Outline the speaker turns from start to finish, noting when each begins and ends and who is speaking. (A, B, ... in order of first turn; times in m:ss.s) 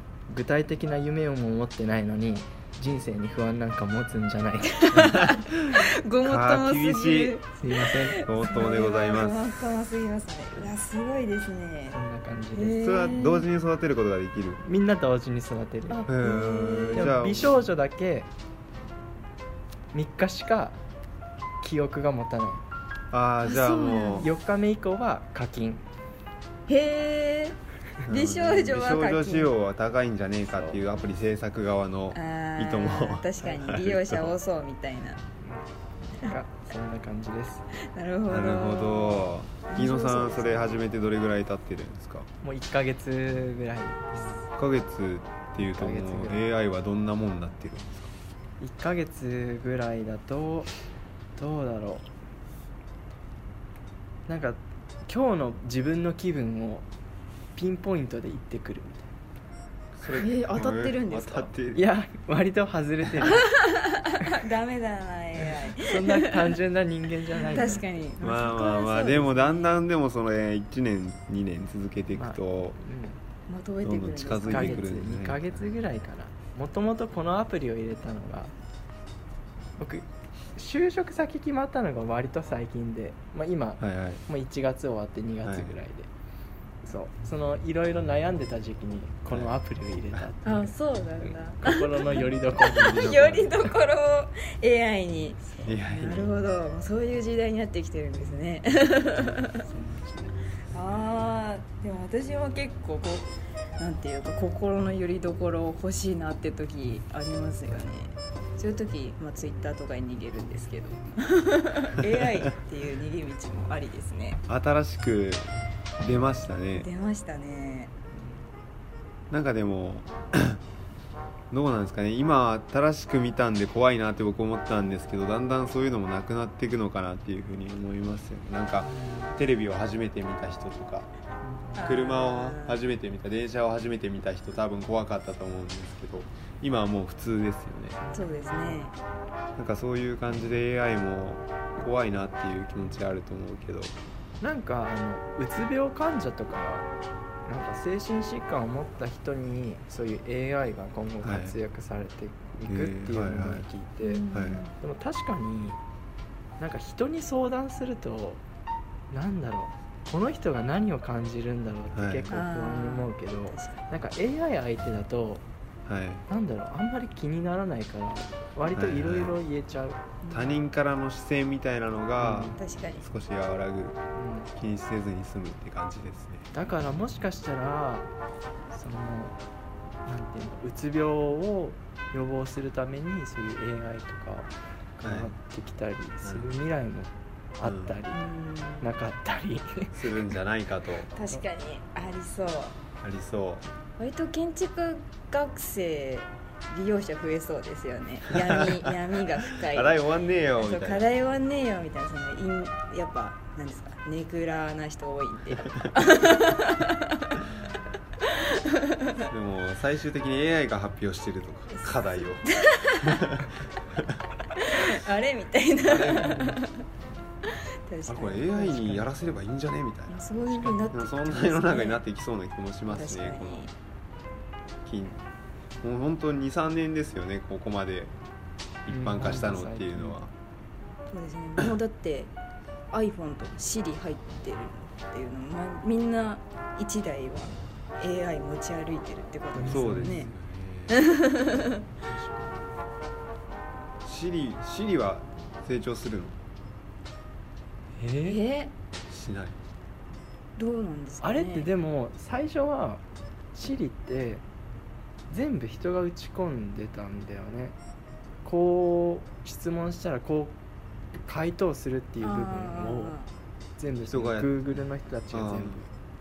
0:00.3-0:05.3 A
0:04.8-0:12.0 B
0:05.0-0:07.4 C
0:07.6-0:08.2 A
0:08.2-0:09.6 C
0:11.9-0:12.8 A
0:12.5-0:13.5 B
0:12.8-0:14.6 C
0:14.6-0:16.1 A
0:15.9-0:17.1 B
0:16.1-0:17.6 C
0:16.9-0:18.3 A
0:19.9-0:20.8 A
0:21.6-0:22.6 A
0:23.1-0:24.3 C
0:23.4-0:24.3 B
0:24.2-0:25.8 A
0:26.7-0:29.5 B
0:28.0-0:34.4 C
0:32.1-0:35.2 B
0:35.4-0:37.7 A
0:37.8-0:40.8 B
0:38.3-0:42.3 C
0:42.4-0:44.4 A
0:44.5-0:48.1 C
0:45.6-0:46.4 A
0:48.6-0:50.7 A
0:51.4-0:52.1 A
0:54.3-0:56.8 A
0:57.6-0:59.1 A
0:59.9-1:01.8 C
1:00.1-1:01.5 B
1:01.7-1:03.5 A
1:03.4-1:06.5 B
1:05.8-1:08.0 A
1:07.4-1:09.8 B
1:08.2-1:12.8 C
1:12.1-1:13.2 A
1:13.5-1:14.9 B
1:13.8-1:15.6 C
1:14.5-1:18.5 A
1:19.8-1:26.1 A
1:23.8-1:24.2 C
1:25.4-1:25.7 C
1:26.8-1:33.4 A
1:30.4-1:39.7 B
1:32.8-1:33.5 C
1:35.6-1:36.3 C
1:39.7-1:40.3 A
1:40.7-1:54.4 B
1:54.5-1:56.9 C
1:56.7-1:57.9 B
1:59.3-2:00.6 C
2:01.5-2:11.1 C
2:08.8-2:09.3 A
2:11.4-2:11.8 A
2:11.8-2:12.8 B
2:11.8-2:18.0 C
2:18.0-2:18.9 A
2:18.1-2:18.9 B
2:19.6-2:23.9 C
2:24.4-2:26.9 A
2:27.4-2:34.2 A
2:31.2-2:31.5 C
2:32.7-2:33.6 C
2:34.0-2:34.7 B
2:34.3-2:34.6 C
2:34.8-2:35.8 A
2:36.6-2:38.4 A
2:39.1-2:45.4 A
2:41.9-2:42.3 C
2:42.3-2:43.8 B
2:45.8-2:46.2 C
2:46.3-2:50.0 A
2:48.7-2:49.3 C
2:50.2-2:50.6 B
2:50.3-2:54.0 C
2:52.2-2:52.6 A
2:52.6-2:53.0 B
2:54.1-2:54.5 A
2:54.5-2:56.5 C
2:56.5-2:58.1 A
2:58.7-2:59.4 A
3:00.0-3:08.2 A
3:05.0-3:05.3 C
3:06.2-3:06.5 C
3:07.6-3:08.0 C
3:08.1-3:08.9 B
3:08.8-3:10.0 A
3:09.9-3:11.1 C
3:11.1-3:12.7 B
3:13.0-3:13.6 C
3:14.0-3:20.0 B
3:18.3-3:18.9 C
3:19.4-3:21.0 C
3:20.6-3:27.4 B
3:28.2-3:29.3 B
3:29.3-3:32.4 C
3:31.8-3:33.3 B
3:33.0-3:34.2 C
3:34.5-3:36.8 B
3:35.8-3:36.4 C
3:36.2-3:36.6 A
3:37.4-3:39.1 B
3:38.1-3:40.2 C
3:40.1-3:42.0 B
3:40.4-3:40.8 A
3:40.9-3:43.7 C
3:42.9-3:43.7 B
3:44.8-3:45.2 C
3:45.8-3:48.1 C
3:48.8-3:50.3 C
3:48.9-3:50.2 A
3:51.1-3:52.3 B
3:52.9-4:00.3 B
3:59.6-4:00.3 A
3:59.6-4:01.0 C
4:00.9-4:01.8 B
4:02.1-4:02.6 A
4:04.0-4:06.4 C
4:08.0-4:08.4 A
4:08.2-4:08.7 B
4:09.1-4:09.6 C
4:10.6-4:11.7 B
4:11.2-4:13.0 A
4:13.5-4:14.4 A
4:15.3-4:17.8 A
4:18.4-4:20.5 A
4:21.2-4:23.2 A
4:22.2-4:23.3 B
4:23.8-4:25.9 A
4:24.1-4:24.6 C
4:25.3-4:25.8 C